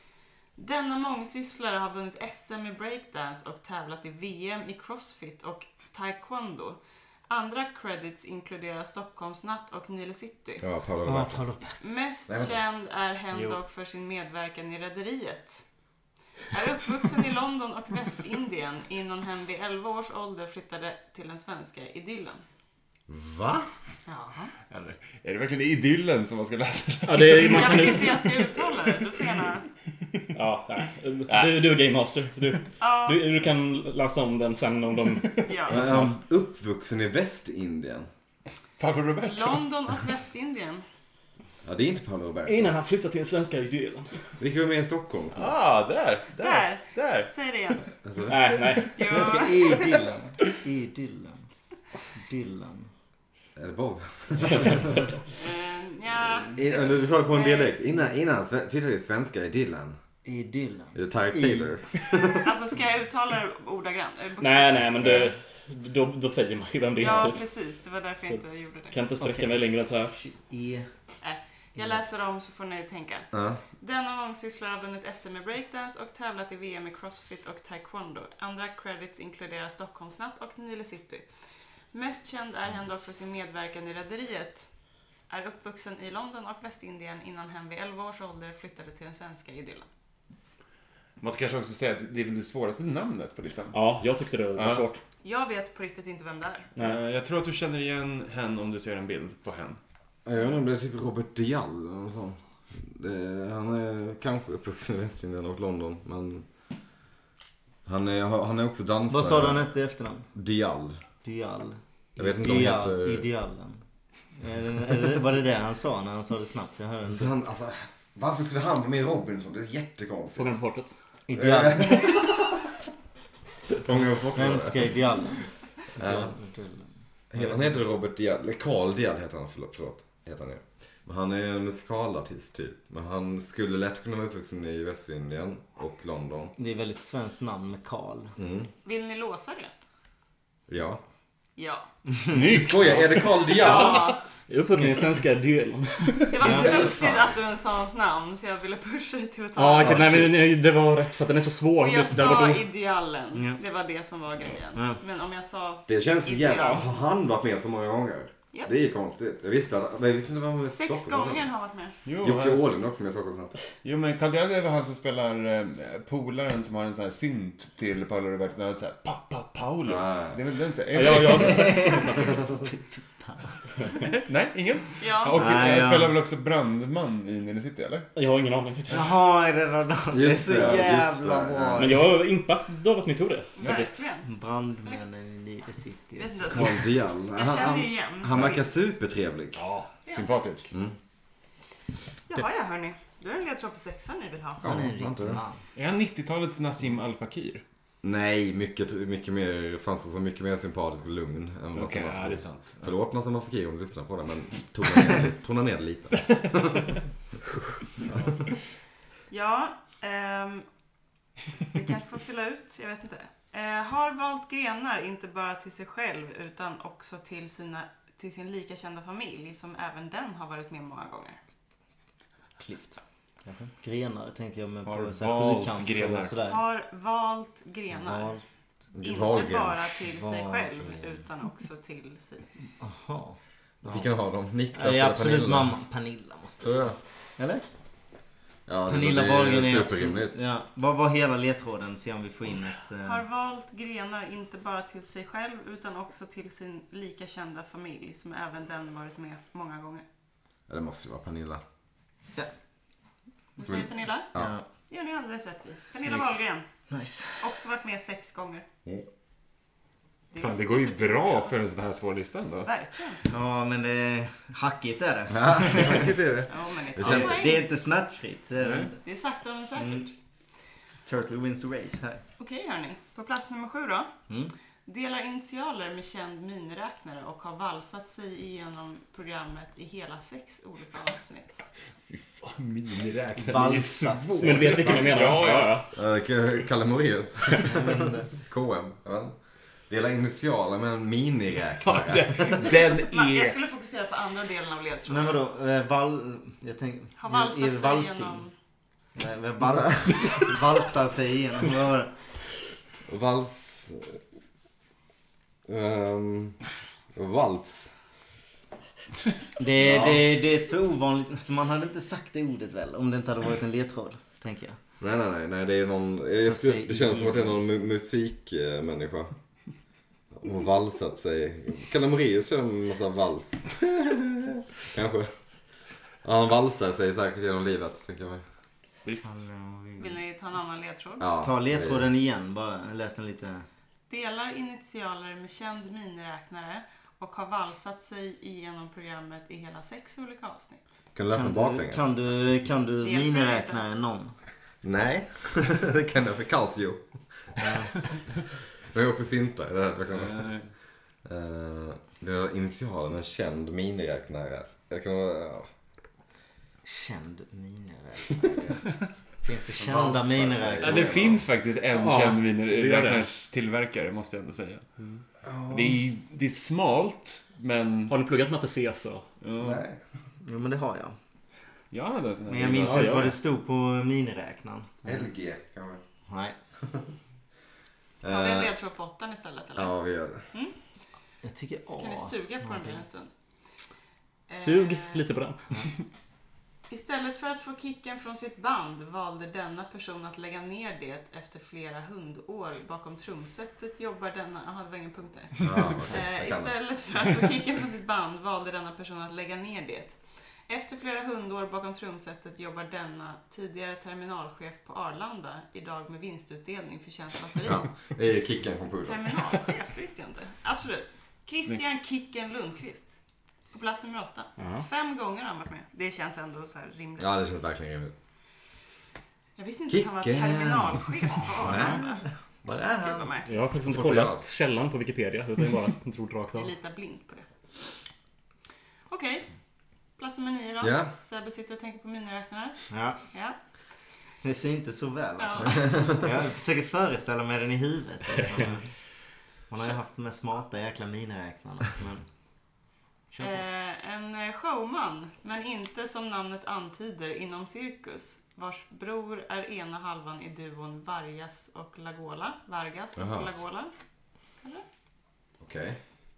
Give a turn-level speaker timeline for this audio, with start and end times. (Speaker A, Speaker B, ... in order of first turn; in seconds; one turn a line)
Speaker A: 0.6-10.6
Speaker B: 10.6-11.4
Speaker C: 11.0-11.8
Speaker A: 11.8-15.6
Speaker B: 12.3-12.6
Speaker A: 16.5-22.4
Speaker B: 23.1-23.7
Speaker A: 24.1-24.5
Speaker D: 24.7-29.3
Speaker E: 27.0-28.3
Speaker A: 27.4-29.6
Speaker E: 30.3-35.3
Speaker D: 31.3-31.7
Speaker A: 32.8-33.2
Speaker A: 35.5-35.9
Speaker B: 35.7-38.1
Speaker D: 38.8-40.0
Speaker A: 39.2-40.8
Speaker B: 41.6-42.8
Speaker E: 42.5-44.1
Speaker B: 44.4-45.5
Speaker D: 45.3-47.3
Speaker A: 46.4-47.9
Speaker B: 48.0-48.5
Speaker E: 48.3-49.0
Speaker A: 48.9-50.0
Speaker C: 49.0-51.4
Speaker C: 52.2-52.9
Speaker B: 53.5-55.1
Speaker A: 55.3-57.7
Speaker B: 56.5-60.0
Speaker C: 60.2-61.7
Speaker B: 60.9-62.5
Speaker A: 62.2-65.3
Speaker E: 64.4-67.4
Speaker A: 67.0-69.0
Speaker E: 68.2-70.1
Speaker C: 69.2-70.9
Speaker A: 71.2-81.2
Speaker B: 73.3-73.6
Speaker A: 81.9-84.7
Speaker A: 85.3-89.9
Speaker D: 91.2-93.8
Speaker E: 93.7-95.0
Speaker D: 94.6-94.8
Speaker A: 95.2-96.7
Speaker D: 96.8-99.8
Speaker B: 100.2-106.5
Speaker B: 107.8-109.7
Speaker C: 109.1-110.3
Speaker B: 110.3-111.0
Speaker C: 111.2-113.8
Speaker B: 112.2-113.3
Speaker C: 114.4-117.3
Speaker B: 117.1-120.6
Speaker E: 120.3-120.9
Speaker C: 121.3-121.9
Speaker B: 121.3-122.7
Speaker B: 123.7-125.0
Speaker C: 124.3-127.8
Speaker B: 126.0-126.3
Speaker B: 127.3-136.5
Speaker C: 136.6-138.3
Speaker B: 138.4-138.7
Speaker A: 138.8-139.7
Speaker B: 140.7-141.0
Speaker A: 141.6-141.9
Speaker C: 142.1-142.4
Speaker D: 142.2-143.4
Speaker B: 142.5-144.1
Speaker A: 143.5-144.2
Speaker E: 143.5-146.3
Speaker A: 146.3-150.4
Speaker C: 146.4-146.9
Speaker B: 146.4-147.4
Speaker E: 149.6-152.6
Speaker B: 149.8-150.2
Speaker A: 151.8-156.9
Speaker C: 153.3-153.6
Speaker B: 155.9-161.5
Speaker A: 160.7-161.9
Speaker D: 162.0-162.7
Speaker B: 162.2-163.6
Speaker D: 163.8-171.9
Speaker B: 169.8-170.4
Speaker E: 170.9-172.4
Speaker C: 171.2-173.5
Speaker D: 174.1-178.1
Speaker A: 175.0-175.6
Speaker C: 175.3-176.2
Speaker E: 178.1-179.1
Speaker C: 178.9-182.0
Speaker B: 180.1-182.0
Speaker D: 180.5-180.9
Speaker E: 181.8-183.9
Speaker A: 183.6-184.3
Speaker C: 184.2-186.7
Speaker A: 186.2-186.8
Speaker B: 186.5-189.6
Speaker A: 187.3-188.6
Speaker D: 189.5-190.7
Speaker A: 190.1-190.4
Speaker B: 190.7-190.9
Speaker A: 192.3-194.7
Speaker B: 194.6-195.4
Speaker C: 194.6-195.6
Speaker D: 195.8-197.6
Speaker B: 198.0-206.9
Speaker D: 201.7-202.9
Speaker A: 209.3-210.7
Speaker A: 211.7-221.4
Speaker C: 222.6-226.7
Speaker D: 224.8-226.3
Speaker A: 226.4-228.4
Speaker C: 227.9-228.4
Speaker B: 228.9-229.9
Speaker A: 229.0-232.4
Speaker C: 230.0-231.2
Speaker C: 232.8-234.1
Speaker B: 233.8-235.7
Speaker C: 234.7-237.6
Speaker B: 236.6-237.0
Speaker B: 238.7-240.4
Speaker C: 238.9-243.2
Speaker A: 243.0-250.0
Speaker B: 250.7-251.6
Speaker A: 253.6-254.3
Speaker B: 253.6-254.5
Speaker C: 254.3-254.7
Speaker A: 254.9-256.6
Speaker C: 256.9-257.5
Speaker A: 257.4-258.6
Speaker A: 260.3-261.5
Speaker D: 260.4-262.7
Speaker A: 262.6-263.2
Speaker C: 263.2-266.4
Speaker B: 265.3-266.1
Speaker D: 265.7-266.5
Speaker A: 266.5-267.7
Speaker B: 267.0-267.3
Speaker C: 267.0-269.0
Speaker D: 268.6-268.9
Speaker A: 269.0-270.1
Speaker C: 269.8-270.1
Speaker C: 271.1-272.2
Speaker A: 272.4-274.1
Speaker A: 274.9-281.6
Speaker D: 282.1-285.8
Speaker C: 283.4-285.6
Speaker E: 284.4-285.9
Speaker B: 285.9-289.4
Speaker C: 287.6-288.3
Speaker B: 289.9-292.8
Speaker D: 291.8-293.6
Speaker A: 293.1-295.4
Speaker C: 295.1-298.4
Speaker A: 297.2-298.5
Speaker C: 299.1-302.1
Speaker B: 303.1-304.2
Speaker B: 305.7-306.6
Speaker B: 307.1-307.9
Speaker C: 309.6-314.8
Speaker B: 309.8-310.4
Speaker B: 315.0-319.3
Speaker C: 316.4-317.6
Speaker B: 320.3-325.3
Speaker B: 326.2-328.4
Speaker D: 329.0-329.4
Speaker C: 329.2-330.2
Speaker A: 330.0-331.3
Speaker B: 331.2-332.1
Speaker C: 331.4-333.6
Speaker A: 334.1-340.8
Speaker B: 341.1-342.1
Speaker C: 341.3-344.3
Speaker A: 343.0-343.8
Speaker B: 344.8-347.1
Speaker C: 347.6-347.9
Speaker B: 348.9-350.5
Speaker D: 350.1-350.7
Speaker B: 351.2-355.7
Speaker C: 356.8-361.1
Speaker B: 359.7-361.4
Speaker D: 360.8-364.9
Speaker E: 361.9-363.3
Speaker B: 365.4-366.0
Speaker D: 365.7-368.1
Speaker E: 368.1-369.2
Speaker D: 369.4-369.8
Speaker B: 369.6-370.0
Speaker C: 370.4-371.1
Speaker D: 371.9-373.4
Speaker C: 372.5-375.2
Speaker E: 372.7-373.3
Speaker B: 375.0-376.0
Speaker C: 376.3-376.6
Speaker B: 378.2-378.7
Speaker A: 378.3-379.9
Speaker B: 379.8-380.4
Speaker C: 381.4-383.0
Speaker A: 381.9-383.3
Speaker A: 384.5-385.2
Speaker E: 384.5-385.9
Speaker A: 386.9-407.9
Speaker B: 395.6-396.7
Speaker B: 407.6-409.3
Speaker A: 409.0-413.1
Speaker A: 413.7-417.3
Speaker E: 414.6-414.8
Speaker B: 417.2-418.1
Speaker A: 419.6-423.5
Speaker B: 419.9-423.3
Speaker E: 421.7-422.0
Speaker E: 423.5-426.7
Speaker B: 423.9-424.4
Speaker A: 426.6-427.4
Speaker A: 429.1-429.4
Speaker A: 430.2-433.6
Speaker B: 430.8-431.1
Speaker C: 432.9-433.2
Speaker C: 434.4-438.9
Speaker A: 435.4-436.3
Speaker C: 439.7-442.2
Speaker C: 443.3-443.6
Speaker A: 443.4-453.9
Speaker B: 453.1-453.5
Speaker A: 454.6-454.8
Speaker B: 455.6-456.0